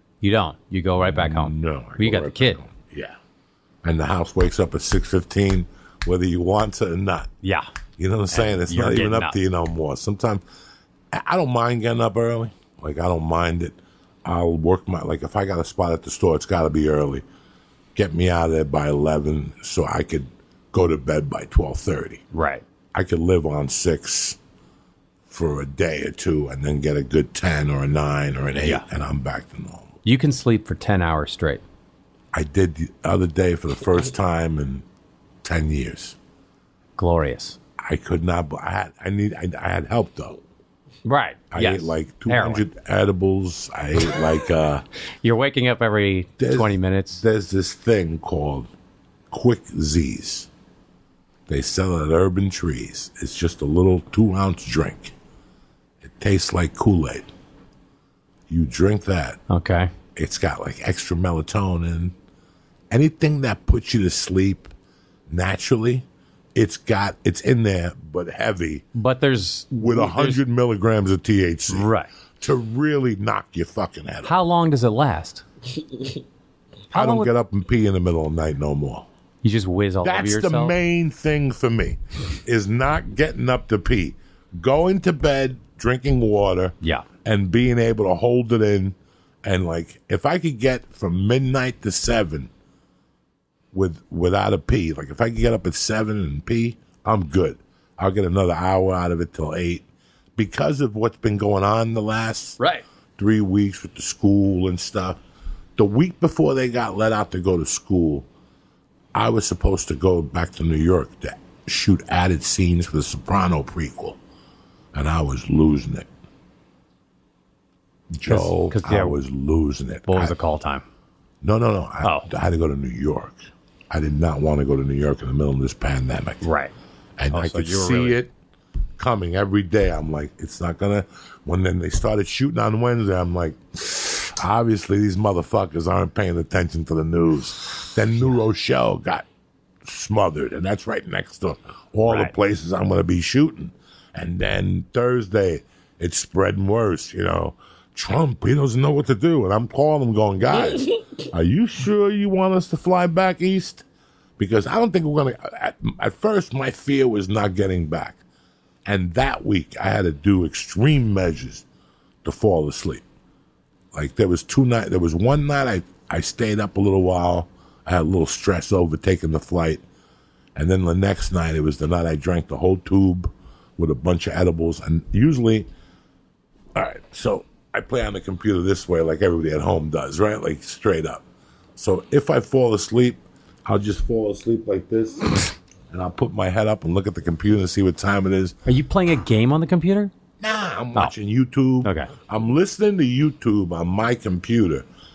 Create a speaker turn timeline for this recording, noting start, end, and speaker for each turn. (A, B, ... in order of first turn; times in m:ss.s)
0:00.2-0:02.6 A
0:01.0-0:03.2 B
0:03.8-0:07.3 B
0:08.0-0:10.4 B
0:08.3-0:09.4 A
0:11.1-0:17.2 B
0:18.0-0:22.2 B
0:22.3-0:22.6 A
0:22.9-0:24.4 B
0:25.3-0:30.0 B
0:28.6-0:28.8 A
0:30.0-0:31.6 A
0:32.3-0:34.9 B
0:35.4-0:36.2 B
0:37.0-0:37.6 A
0:37.8-0:40.4 B
0:41.0-0:42.7 A
0:41.5-0:44.8 B
0:45.2-0:47.2 A
0:46.4-0:48.7 B
0:49.3-0:50.5 B
0:51.5-0:55.1 B
0:56.0-0:57.3 B
0:58.5-0:59.4 B
0:59.5-0:59.9 A
1:00.2-1:02.1 B
1:02.9-1:04.7 B
1:05.3-1:08.9 B
1:09.0-1:10.4 A
1:09.7-1:14.4 B
1:11.7-1:12.1 A
1:14.2-1:15.4 A
1:16.9-1:17.3 A
1:16.9-1:19.1 B
1:19.4-1:20.8 A
1:20.0-1:32.5 B
1:26.8-1:27.1 A
1:33.7-1:42.6 B
1:42.6-1:42.8 A
1:43.2-1:45.2 B
1:45.8-1:48.3 B
1:49.2-1:54.2 B
1:54.9-1:56.1 B
1:58.2-2:00.4 B
1:58.3-1:59.2 A
2:00.1-2:00.8 A
2:01.4-2:03.4 B
2:02.0-2:02.3 A
2:03.9-2:06.4 B
2:06.4-2:06.7 A
2:07.2-2:08.3 B
2:07.3-2:08.2 A
2:09.0-2:19.3 B
2:19.8-2:33.9 B
2:22.0-2:22.3 A
2:34.4-2:38.2 B
2:38.9-2:41.7 B
2:42.2-2:43.1 B
2:43.9-2:49.8 B
2:50.6-2:55.7 B
2:56.8-3:01.2 B
3:01.8-3:08.6 B
3:08.6-3:10.1 A
3:10.4-3:14.9 B
3:11.8-3:12.1 A